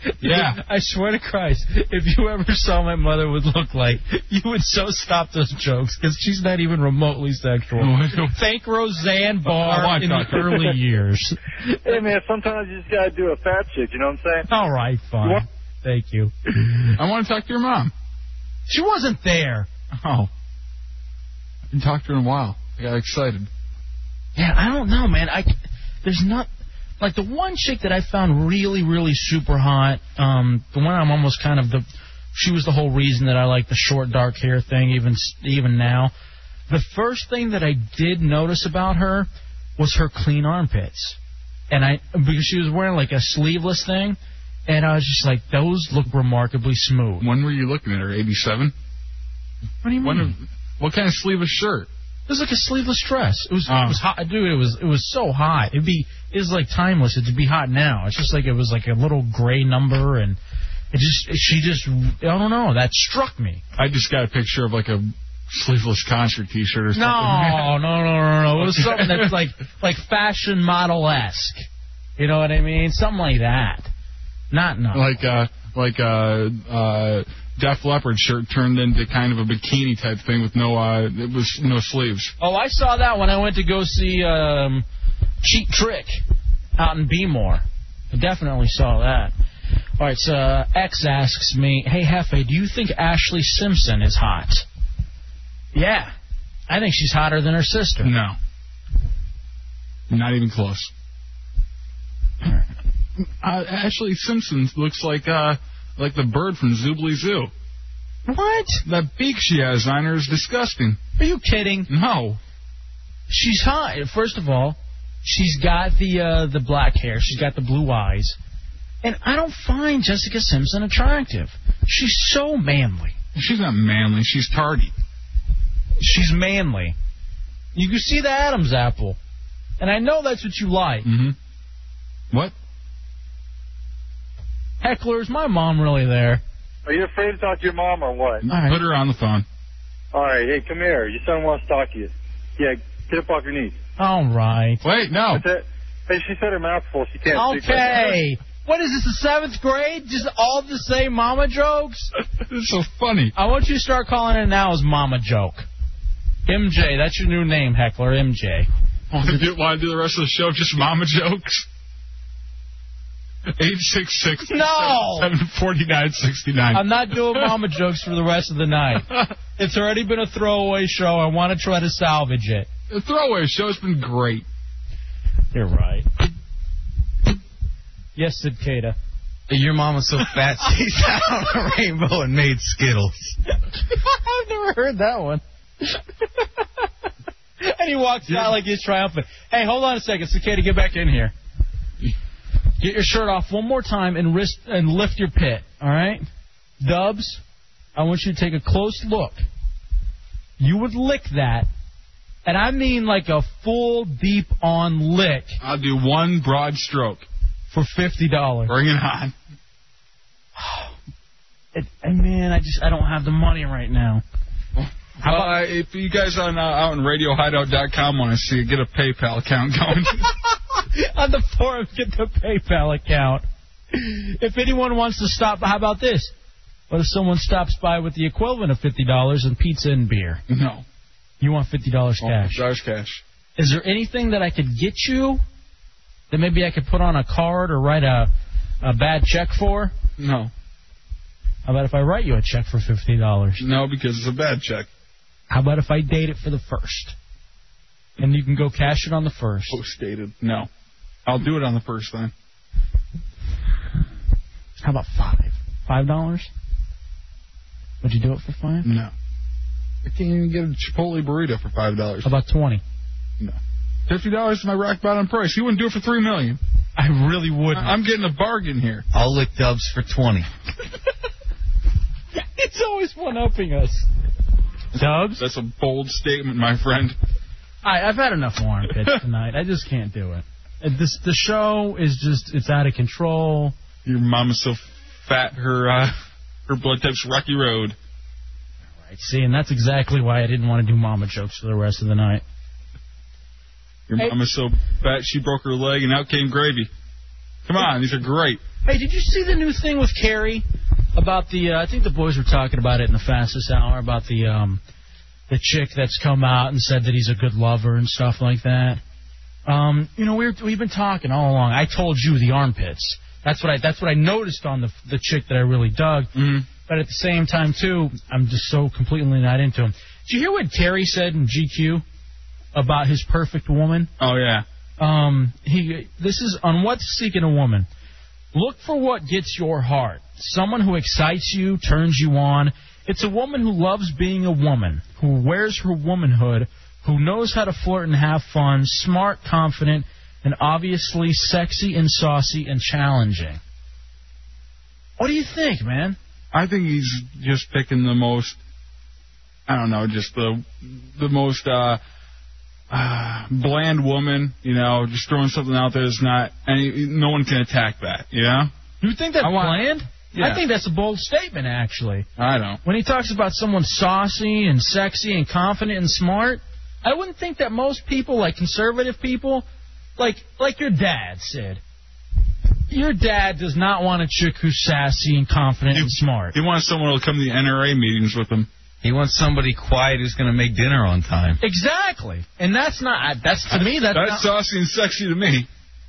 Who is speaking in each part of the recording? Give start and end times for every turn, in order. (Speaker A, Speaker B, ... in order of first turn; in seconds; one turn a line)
Speaker A: 0.2-12.0
Speaker B: 0.2-0.6
Speaker B: 7.8-8.4
Speaker B: 9.5-10.7
Speaker C: 11.8-14.5
Speaker A: 14.5-16.9
Speaker B: 17.0-17.9
Speaker A: 18.7-19.7
Speaker B: 20.0-20.3
Speaker B: 21.7-23.5
Speaker A: 24.4-25.5
Speaker A: 26.0-26.5
Speaker A: 27.0-36.1
Speaker A: 36.7-41.2
Speaker A: 41.7-47.3
Speaker B: 47.2-48.7
Speaker A: 49.8-50.3
Speaker B: 50.0-51.9
Speaker A: 52.3-60.4
Speaker B: 53.7-54.0
Speaker A: 60.9-63.6
Speaker B: 63.8-67.8
Speaker A: 67.0-71.7
Speaker B: 68.6-69.4
Speaker A: 72.2-73.9
Speaker A: 74.5-75.2
Speaker B: 74.9-82.3
Speaker A: 82.4-84.8
Speaker A: 85.4-86.2
Speaker A: 86.8-89.3
Speaker A: 90.0-94.7
Speaker A: 95.7-96.1
Speaker A: 96.7-98.1
Speaker B: 98.0-98.4
Speaker B: 100.1-100.9
Speaker B: 103.2-107.5
Speaker A: 108.3-108.8
Speaker B: 108.9-111.0
Speaker A: 111.2-111.9
Speaker B: 111.9-112.4
Speaker A: 113.3-118.4
Speaker A: 119.0-123.2
Speaker B: 123.3-124.9
Speaker A: 126.0-127.0
Speaker A: 127.8-129.2
Speaker A: 129.8-131.1
Speaker B: 131.1-131.3
Speaker A: 134.8-136.4
Speaker C: 136.9-138.4
Speaker B: 138.4-139.4
Speaker A: 138.5-138.8
Speaker C: 140.1-143.8
Speaker A: 144.0-144.8
Speaker B: 144.8-145.4
Speaker C: 145.3-148.2
Speaker A: 147.3-152.1
Speaker B: 152.4-153.3
Speaker A: 153.3-155.7
Speaker A: 156.5-158.7
Speaker B: 159.1-161.7
Speaker B: 163.6-167.5
Speaker A: 164.5-165.3
Speaker A: 166.7-172.7
Speaker B: 172.9-174.4
Speaker A: 175.5-176.1
Speaker A: 178.2-179.0
Speaker D: 179.5-183.4
Speaker A: 183.8-186.6
Speaker A: 187.6-191.3
Speaker B: 188.3-188.6
Speaker A: 192.8-196.3
Speaker A: 196.8-197.4
Speaker A: 197.9-199.4
Speaker A: 200.6-201.7
Speaker A: 202.5-205.6
Speaker B: 205.6-207.2
Speaker A: 207.7-208.7
Speaker B: 208.7-209.3
Speaker A: 210.6-210.9
Speaker A: 211.7-214.2
Speaker B: 214.8-220.3
Speaker A: 215.2-215.5
Speaker A: 220.8-226.3
Speaker A: 226.9-230.4
Speaker B: 230.5-230.8
Speaker A: 231.4-232.6
Speaker B: 232.2-233.2
Speaker A: 233.6-235.4
Speaker A: 236.3-238.3
Speaker A: 238.8-239.9
Speaker B: 240.2-240.5
Speaker A: 241.7-243.6
Speaker B: 243.6-244.9
Speaker A: 245.5-247.2
Speaker A: 248.2-249.8
Speaker B: 249.7-250.7
Speaker B: 251.3-252.3
Speaker A: 254.8-256.5
Speaker A: 258.0-258.9
Speaker B: 258.8-259.1
Speaker B: 260.0-262.3
Speaker A: 262.2-262.8
Speaker B: 263.4-266.6
Speaker A: 267.0-267.9
Speaker B: 267.8-269.1
Speaker D: 269.1-270.5
Speaker A: 272.4-274.1
Speaker A: 274.9-275.4
Speaker B: 275.0-277.2
Speaker A: 277.8-283.8
Speaker B: 284.1-286.1
Speaker B: 286.7-288.0
Speaker A: 289.0-292.4
Speaker B: 294.1-296.9
Speaker B: 297.7-298.6
Speaker A: 298.9-300.6
Speaker A: 301.2-304.8
Speaker A: 305.5-309.0
Speaker A: 309.7-316.3
Speaker B: 316.4-316.7
Speaker A: 316.9-322.0
Speaker A: 322.8-324.1
Speaker B: 324.2-324.6
Speaker A: 325.0-327.9
Speaker A: 328.5-343.6
Speaker A: 345.2-346.2
Speaker B: 346.5-348.6
Speaker B: 349.7-352.0
Speaker B: 352.9-358.7
Speaker A: 359.0-362.3
Speaker B: 359.4-360.6
Speaker B: 362.4-362.8
Speaker A: 362.8-369.6
Speaker A: 370.2-371.8
Speaker A: 372.9-376.6
Speaker B: 375.9-378.7
Speaker D: 379.0-381.6
Speaker A: 381.6-384.5
Speaker B: 383.7-385.7